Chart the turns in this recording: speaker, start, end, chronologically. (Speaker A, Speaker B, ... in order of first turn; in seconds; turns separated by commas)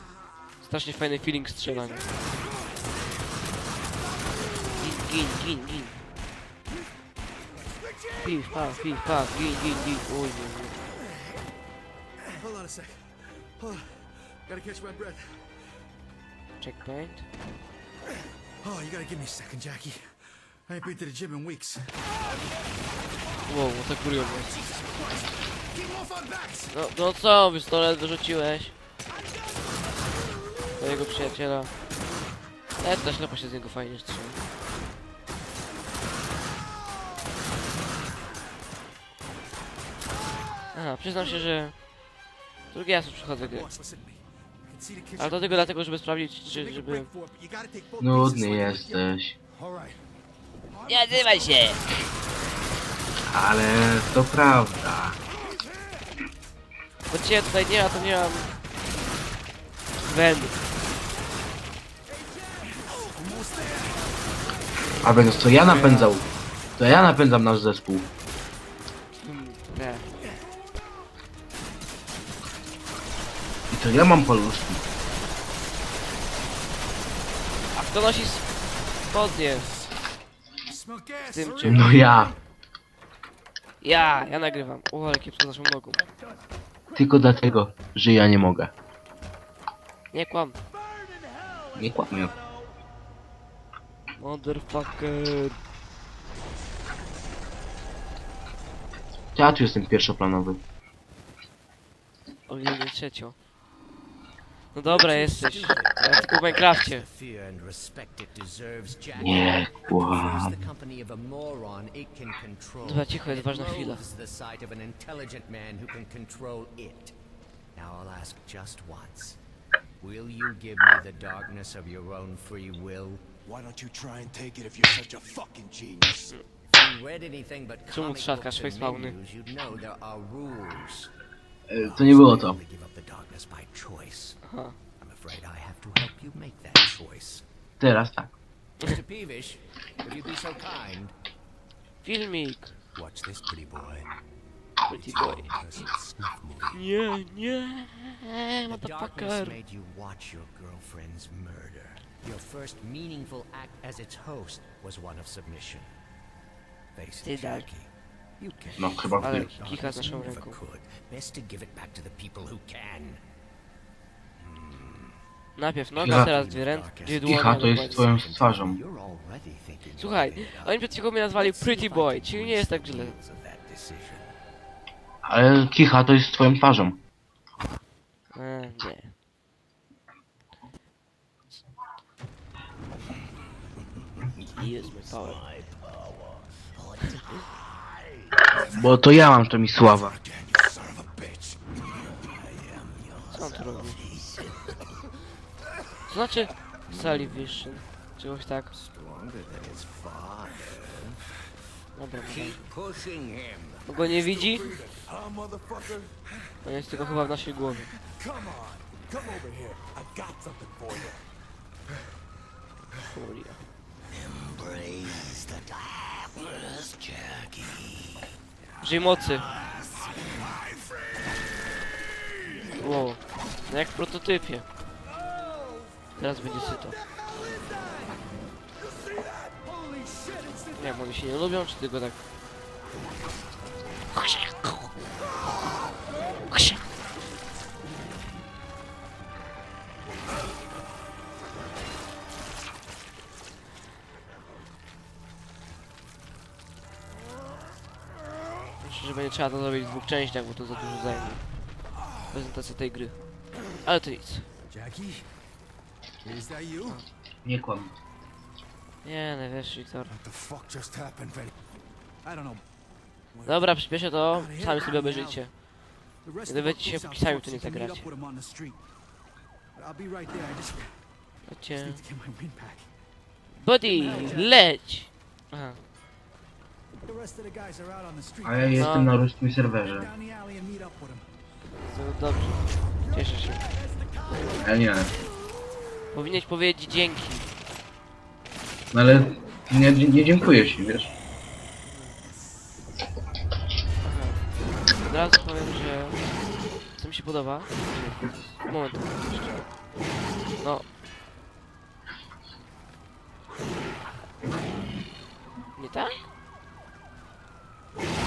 Speaker A: 0.6-2.1, Speaker A: 4.7-6.0, Speaker A: 8.2-10.8, Speaker B: 12.4-15.5, Speaker A: 16.6-17.3, Speaker B: 18.6-22.2, Speaker A: 23.4-24.5, Speaker B: 24.4-26.7, Speaker A: 26.7-28.8, Speaker A: 30.8-31.7, Speaker A: 32.8-34.5, Speaker A: 40.7-41.8, Speaker A: 42.7-43.7, Speaker B: 43.4-45.7, Speaker A: 45.2-47.1, Speaker B: 46.4-49.0, Speaker C: 48.0-49.4, Speaker D: 49.6-49.9, Speaker B: 50.7-52.0, Speaker A: 50.9-51.9, Speaker C: 53.3-55.2, Speaker A: 57.1-58.5, Speaker A: 60.0-60.6, Speaker B: 62.4-64.2, Speaker C: 65.0-66.2, Speaker A: 65.6-66.2, Speaker C: 66.8-68.1, Speaker A: 69.2-70.1, Speaker C: 73.7-74.8, Speaker A: 77.8-78.5, Speaker A: 79.1-79.7, Speaker B: 80.7-82.4, Speaker A: 81.2-81.9, Speaker C: 81.6-82.3, Speaker A: 83.8-86.0, Speaker C: 86.9-88.7, Speaker A: 90.1-90.6, Speaker B: 91.2-91.7, Speaker C: 91.8-92.3, Speaker A: 94.2-95.6, Speaker C: 99.3-100.6, Speaker A: 102.5-103.4, Speaker A: 104.7-107.0, Speaker E: 104.9-117.1, Speaker C: 109.2-110.6, Speaker A: 112.8-114.0, Speaker E: 117.8-119.4, Speaker E: 120.0-123.2, Speaker D: 123.5-126.3, Speaker E: 126.7-131.1, Speaker A: 127.9-129.2, Speaker C: 131.7-132.6, Speaker E: 131.8-134.4, Speaker A: 134.4-134.8, Speaker E: 135.0-137.4, Speaker C: 137.8-138.3, Speaker E: 138.8-141.1, Speaker A: 142.0-142.7, Speaker E: 142.9-144.1, Speaker A: 144.9-145.5, Speaker E: 144.9-146.8, Speaker A: 146.7-149.6, Speaker E: 148.7-156.0, Speaker E: 156.9-163.2, Speaker A: 157.2-157.7, Speaker C: 158.8-159.5, Speaker A: 159.2-160.6, Speaker E: 164.4-165.2, Speaker A: 165.6-168.1, Speaker E: 166.0-174.4, Speaker C: 166.0-166.3, Speaker C: 167.2-168.8, Speaker A: 169.9-173.2, Speaker C: 175.2-177.0, Speaker A: 178.3-179.1, Speaker A: 184.6-185.4, Speaker E: 184.6-185.8, Speaker E: 186.9-188.4, Speaker D: 188.5-188.8, Speaker C: 188.7-190.2, Speaker D: 190.0-191.8, Speaker E: 192.3-194.8, Speaker A: 193.3-194.0, Speaker A: 196.1-198.7, Speaker E: 196.9-197.2, Speaker E: 198.7-201.2, Speaker A: 201.9-202.6, Speaker E: 202.2-204.9, Speaker A: 203.9-204.7, Speaker D: 204.7-206.1, Speaker A: 206.6-207.9, Speaker D: 208.2-211.2, Speaker A: 213.1-213.6, Speaker E: 214.1-218.1, Speaker A: 218.8-219.5, Speaker A: 222.8-224.7, Speaker A: 226.2-227.0, Speaker B: 227.0-228.1, Speaker B: 229.0-231.0, Speaker A: 230.8-232.2, Speaker A: 234.1-234.8, Speaker A: 236.5-236.8, Speaker A: 248.8-251.4, Speaker A: 252.3-253.2, Speaker A: 253.8-254.5, Speaker B: 254.7-255.4, Speaker B: 256.2-257.0, Speaker C: 257.4-257.9, Speaker A: 259.0-260.1, Speaker D: 260.1-261.5, Speaker B: 262.2-262.6, Speaker B: 263.3-263.7, Speaker A: 263.4-265.6, Speaker B: 264.3-265.4, Speaker B: 266.2-268.8, Speaker A: 266.5-268.1, Speaker B: 269.8-271.0, Speaker A: 271.4-272.0, Speaker B: 271.8-272.9, Speaker A: 273.6-275.8, Speaker B: 273.9-274.6, Speaker B: 277.0-279.0, Speaker C: 278.4-280.1, Speaker A: 278.8-279.1, Speaker B: 279.9-281.3, Speaker A: 281.8-283.6, Speaker B: 283.7-284.6, Speaker C: 284.6-285.1, Speaker A: 286.1-287.5, Speaker C: 288.9-291.1, Speaker A: 291.9-292.1, Speaker A: 294.0-294.4, Speaker A: 295.0-296.2, Speaker A: 296.9-299.6, Speaker A: 300.6-300.9, Speaker A: 305.8-306.2